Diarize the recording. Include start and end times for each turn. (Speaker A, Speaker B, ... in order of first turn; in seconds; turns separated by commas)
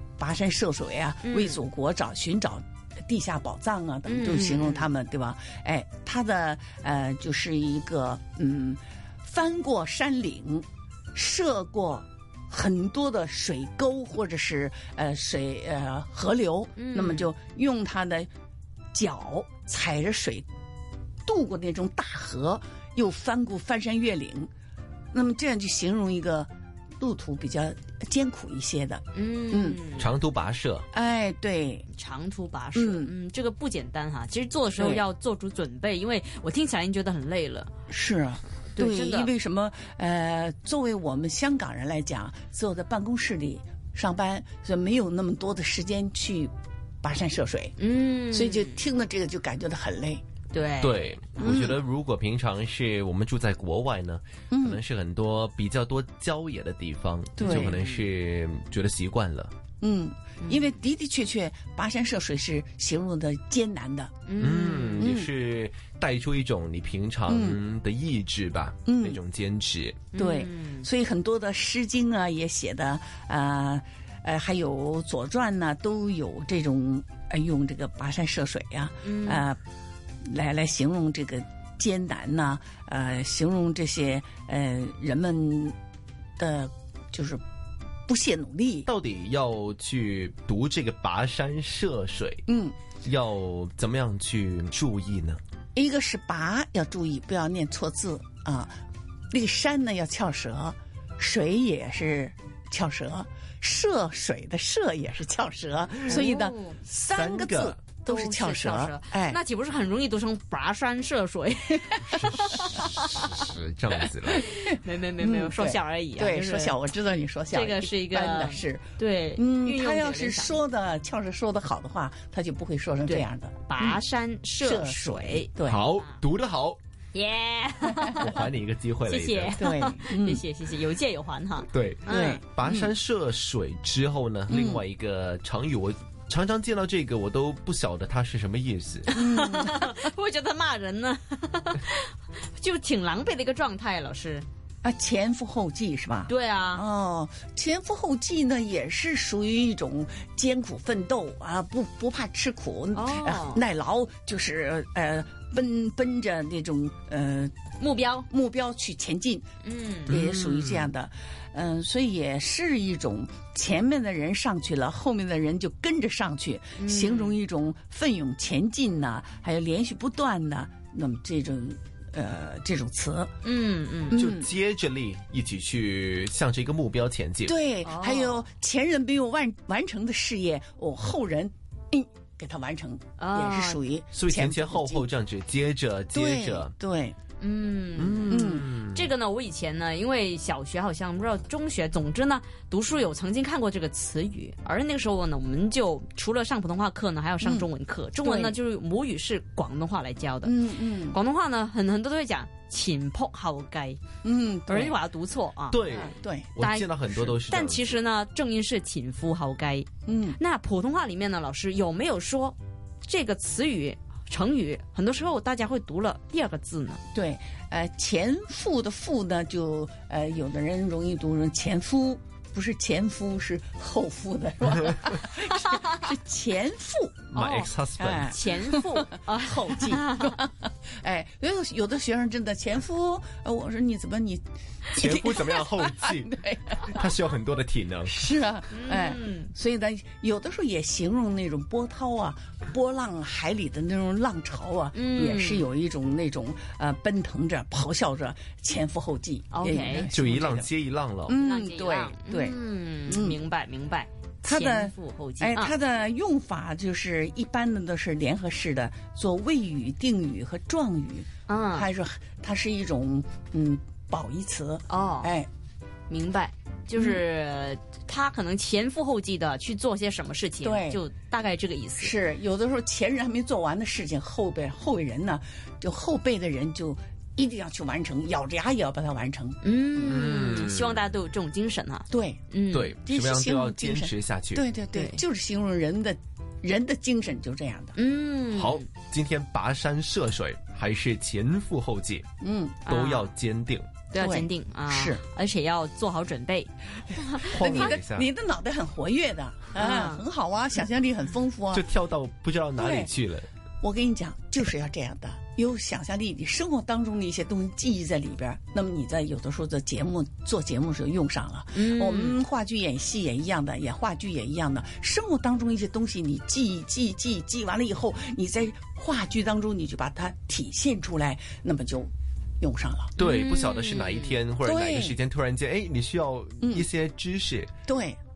Speaker A: 0.2-18.3, Speaker B: 1.2-1.6, Speaker B: 4.0-4.9, Speaker B: 16.8-17.3, Speaker A: 18.9-20.4, Speaker A: 21.2-24.5, Speaker A: 25.1-29.8, Speaker B: 29.1-30.1, Speaker C: 30.0-30.9, Speaker A: 30.9-31.9, Speaker B: 31.9-37.7, Speaker A: 32.7-33.1, Speaker A: 34.8-35.0, Speaker A: 37.9-46.5, Speaker B: 38.7-39.3, Speaker A: 47.0-47.7, Speaker B: 47.8-48.8, Speaker A: 48.3-50.2, Speaker B: 50.5-51.7, Speaker C: 50.8-59.5, Speaker A: 51.4-51.8, Speaker A: 54.5-54.8, Speaker A: 57.4-57.7, Speaker B: 57.4-58.0, Speaker A: 59.8-64.2, Speaker B: 64.3-65.1, Speaker C: 64.4-70.0, Speaker A: 65.0-65.3, Speaker A: 67.3-67.6, Speaker A: 68.8-69.2, Speaker B: 70.1-70.9, Speaker A: 70.1-79.6, Speaker B: 79.0-79.4, Speaker A: 80.2-85.7, Speaker A: 86.4-87.4, Speaker A: 88.1-88.9, Speaker C: 88.8-92.4, Speaker A: 92.5-92.8, Speaker C: 93.0-95.4, Speaker A: 95.7-98.8, Speaker A: 99.3-109.4, Speaker B: 106.0-106.8, Speaker C: 107.1-107.8, Speaker B: 108.1-113.5, Speaker A: 111.9-112.7, Speaker C: 112.1-114.5, Speaker A: 114.3-124.0, Speaker B: 114.5-116.8, Speaker B: 117.5-120.6, Speaker B: 123.1-125.5, Speaker A: 124.6-125.8, Speaker C: 125.6-126.8, Speaker B: 127.1-128.4, Speaker A: 127.9-128.2, Speaker C: 128.1-129.6, Speaker B: 129.1-132.4, Speaker A: 129.6-130.4, Speaker C: 131.7-139.1, Speaker A: 132.1-132.9, Speaker A: 134.5-134.8, Speaker B: 139.1-144.4, Speaker A: 139.1-140.0, Speaker A: 144.8-157.5, Speaker B: 146.3-146.8, Speaker B: 152.9-153.6, Speaker B: 157.8-158.3, Speaker A: 158.3-159.4, Speaker B: 159.6-160.1, Speaker A: 160.1-173.3, Speaker C: 160.1-160.9, Speaker B: 166.8-167.4, Speaker B: 173.4-174.2, Speaker A: 174.1-174.5, Speaker C: 174.1-177.5, Speaker A: 177.4-185.1, Speaker B: 177.8-178.4, Speaker B: 183.2-183.8, Speaker C: 184.1-186.7, Speaker A: 186.1-187.2, Speaker B: 187.4-204.0, Speaker C: 187.9-189.1, Speaker A: 188.3-188.7, Speaker A: 197.4-197.7, Speaker A: 198.2-198.6, Speaker A: 200.4-201.2, Speaker A: 204.2-205.0, Speaker B: 204.7-205.8, Speaker C: 205.7-208.0, Speaker A: 205.9-206.5, Speaker B: 206.6-217.0, Speaker A: 210.1-210.4, Speaker A: 217.1-227.3, Speaker C: 227.3-228.3, Speaker B: 227.3-227.7, Speaker A: 228.0-236.9, Speaker B: 228.2-230.3, Speaker C: 234.9-238.1, Speaker A: 238.1-250.7, Speaker B: 238.7-239.5, Speaker B: 244.9-245.7, Speaker B: 249.5-250.1, Speaker C: 250.1-251.4, Speaker A: 251.2-253.4, Speaker B: 251.4-255.7, Speaker A: 254.4-265.5, Speaker B: 261.5-261.9, Speaker B: 264.9-265.3, Speaker B: 266.1-272.1, Speaker A: 266.9-267.2, Speaker A: 270.6-271.0, Speaker A: 272.0-280.2, Speaker B: 279.6-282.9, Speaker C: 280.0-281.0, Speaker A: 282.1-282.4, Speaker C: 282.7-284.6, Speaker A: 283.0-287.9, Speaker B: 284.9-285.2, Speaker B: 287.9-288.8, Speaker C: 288.5-292.2, Speaker A: 292.4-292.9, Speaker B: 292.9-293.3, Speaker C: 292.9-293.9, Speaker B: 294.1-298.0, Speaker A: 294.1-295.2, Speaker A: 297.2-301.9, Speaker C: 297.4-298.3, Speaker B: 299.7-300.2, Speaker C: 301.7-303.5, Speaker A: 302.8-303.1, Speaker A: 303.8-323.1, Speaker B: 311.7-312.4, Speaker C: 323.1-327.7, Speaker B: 323.2-324.3, Speaker A: 324.6-325.2, Speaker A: 326.6-326.9, Speaker A: 327.9-328.2